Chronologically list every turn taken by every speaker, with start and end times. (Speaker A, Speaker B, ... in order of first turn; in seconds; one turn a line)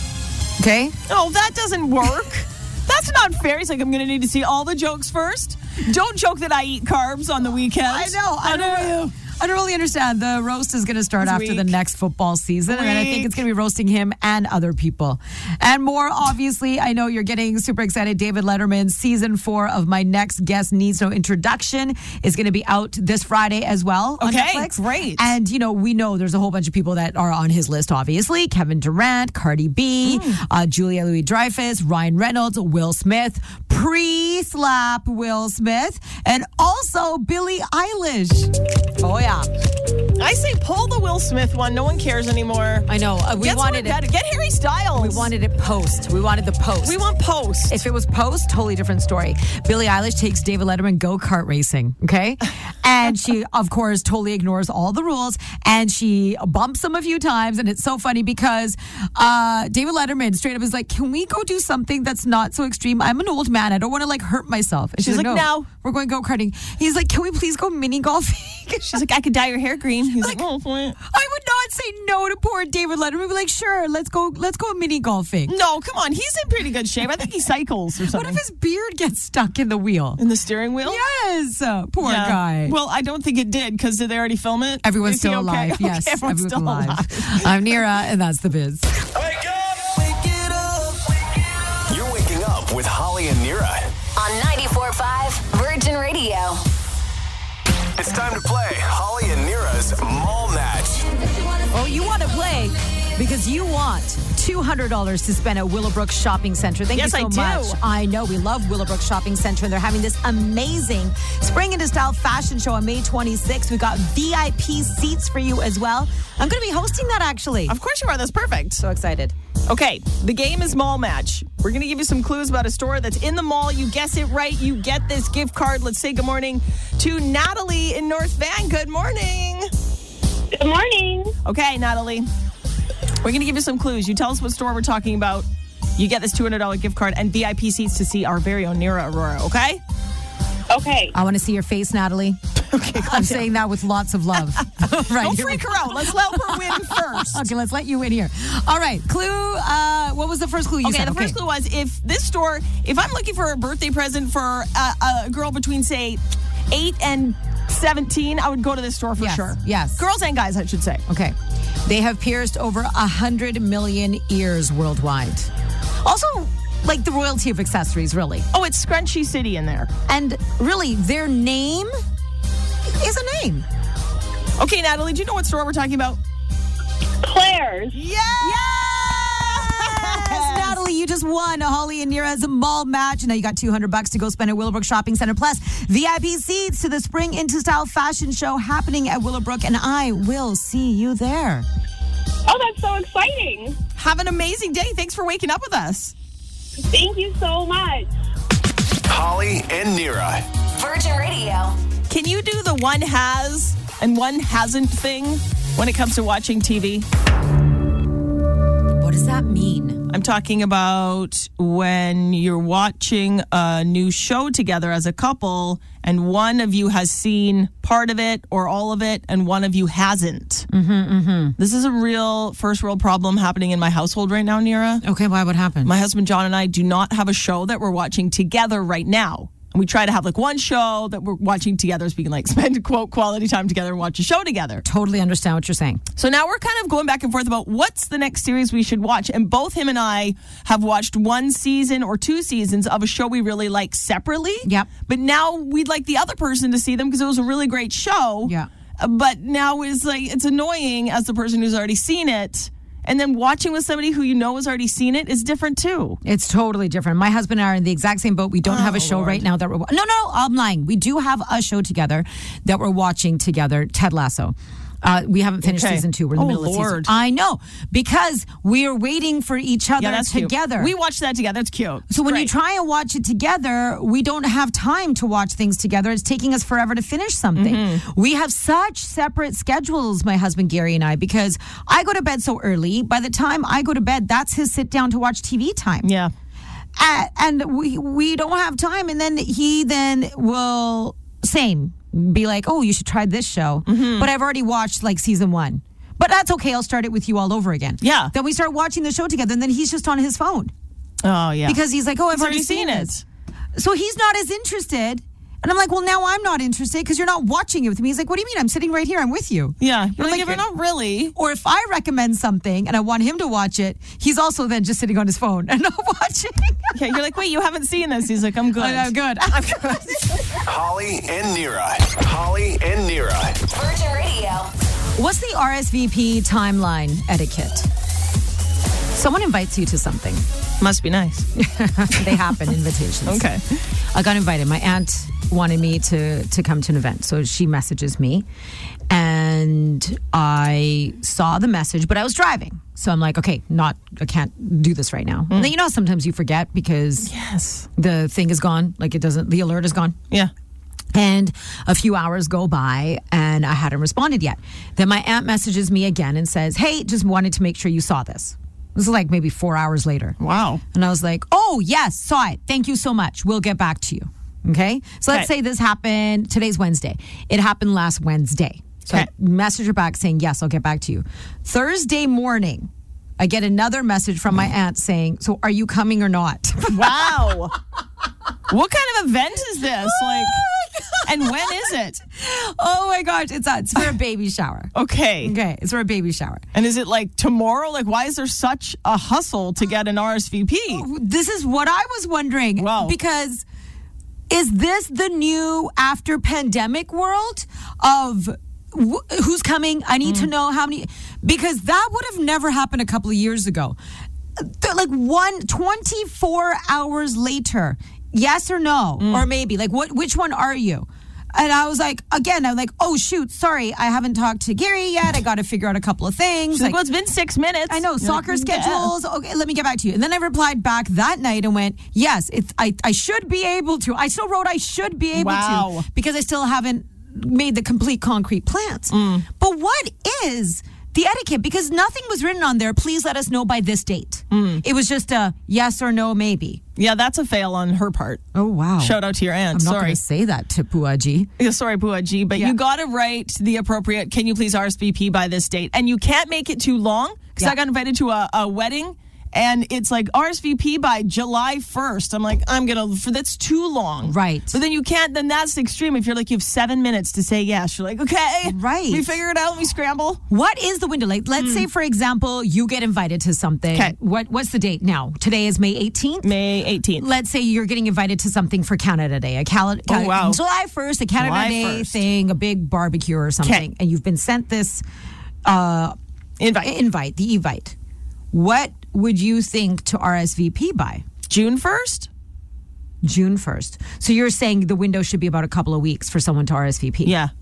Speaker A: 0.6-1.0
Speaker B: 1.1-9.1
Speaker A: 7.9-39.5
Speaker B: 11.2-11.7
Speaker B: 12.7-13.4
Speaker B: 24.2-25.2
Speaker B: 30.0-30.4
Speaker B: 40.2-45.3
Speaker A: 42.9-44.0
Speaker A: 45.0-47.0
Speaker B: 46.8-47.9
Speaker A: 47.7-69.0
Speaker B: 65.0-65.7
Speaker B: 68.9-71.0
Speaker A: 71.0-75.5
Speaker B: 75.5-78.4
Speaker A: 78.1-80.2
Speaker B: 80.2-81.0
Speaker A: 80.8-82.8
Speaker B: 82.0-87.8
Speaker A: 84.8-88.9
Speaker C: 89.2-93.9
Speaker D: 94.2-96.7
Speaker C: 98.0-101.0
Speaker A: 101.7-117.8
Speaker B: 106.9-107.8
Speaker B: 117.7-118.8
Speaker A: 118.8-119.3
Speaker B: 119.7-129.7
Speaker E: 130.5-131.4
Speaker B: 131.4-132.3
Speaker B: 133.2-135.5
Speaker B: 136.0-139.8
Speaker E: 140.7-141.2
Speaker A: 141.1-142.4
Speaker B: 142.7-143.5
Speaker A: 142.9-151.4
Speaker B: 145.0-147.5
Speaker B: 150.8-161.0
Speaker A: 159.2-160.0
Speaker A: 161.1-165.5
Speaker A: 166.0-168.5
Speaker B: 168.5-169.9
Speaker A: 170.1-171.9
Speaker A: 172.9-173.7
Speaker B: 174.6-176.2
Speaker E: 177.2-178.0
Speaker B: 177.9-180.8
Speaker A: 178.4-191.7
Speaker E: 192.5-193.8
Speaker B: 194.0-196.1
Speaker E: 196.8-198.1
Speaker C: 199.1-200.5
Speaker D: 200.8-201.8
Speaker B: 202.1-207.1
Speaker A: 209.0-210.0
Speaker B: 210.1-220.7
Speaker A: 220.7-221.6
Speaker B: 221.6-225.0
Speaker A: 225.0-225.9
Speaker B: 225.8-234.8
Speaker A: 234.8-236.0
Speaker B: 236.2-256.2
Speaker A: 244.7-244.9
Speaker A: 256.2-270.9
Speaker B: 258.6-259.4
Speaker B: 265.6-267.1
Speaker B: 270.0-272.5
Speaker A: 272.1-286.1
Speaker B: 277.6-278.0
Speaker B: 286.0-286.3
Speaker A: 287.0-300.7
Speaker B: 293.9-294.3
Speaker B: 298.0-298.3
Speaker B: 301.2-301.8
Speaker A: 301.7-303.1
Speaker B: 302.3-303.2
Speaker A: 303.8-310.6
Speaker B: 309.8-311.3
Speaker A: 311.4-316.9
Speaker B: 316.9-320.0
Speaker A: 318.8-320.5
Speaker C: 320.6-323.6
Speaker D: 323.7-324.7
Speaker A: 325.2-327.9
Speaker A: 329.1-330.5
Speaker B: 330.8-331.5
Speaker A: 331.6-333.5
Speaker B: 332.1-332.5
Speaker B: 333.3-333.6
Speaker A: 334.1-338.5
Speaker A: 339.1-347.3
Speaker B: 347.2-347.9
Speaker A: 348.0-350.2
Speaker A: 351.1-360.4
Speaker B: 360.4-360.8
Speaker A: 360.9-377.5
Speaker B: 376.9-377.8
Speaker B: 378.7-380.6
Speaker A: 380.0-384.9
Speaker B: 381.2-382.2
Speaker B: 384.9-385.6
Speaker A: 385.4-386.6
Speaker B: 386.7-391.1
Speaker A: 390.9-393.6
Speaker B: 392.8-393.2
Speaker A: 394.5-404.0
Speaker B: 400.2-400.5
Speaker A: 404.6-417.0
Speaker B: 409.2-409.5
Speaker B: 416.7-419.1
Speaker A: 417.9-436.8
Speaker B: 425.3-426.1
Speaker B: 429.1-429.5
Speaker B: 434.5-434.8
Speaker B: 437.0-438.4
Speaker A: 438.5-439.2
Speaker B: 439.0-440.2
Speaker A: 439.7-441.5
Speaker B: 441.6-460.4
Speaker A: 454.2-454.8
Speaker A: 458.6-459.3
Speaker A: 460.5-466.5
Speaker B: 461.6-461.9
Speaker B: 466.4-467.3
Speaker A: 467.2-475.0
Speaker B: 470.1-470.6
Speaker B: 471.4-472.2
Speaker A: 475.6-476.2
Speaker B: 476.6-476.9
Speaker A: 476.8-477.9
Speaker A: 478.5-481.2
Speaker B: 481.5-482.3
Speaker A: 483.2-487.4
Speaker B: 487.2-487.5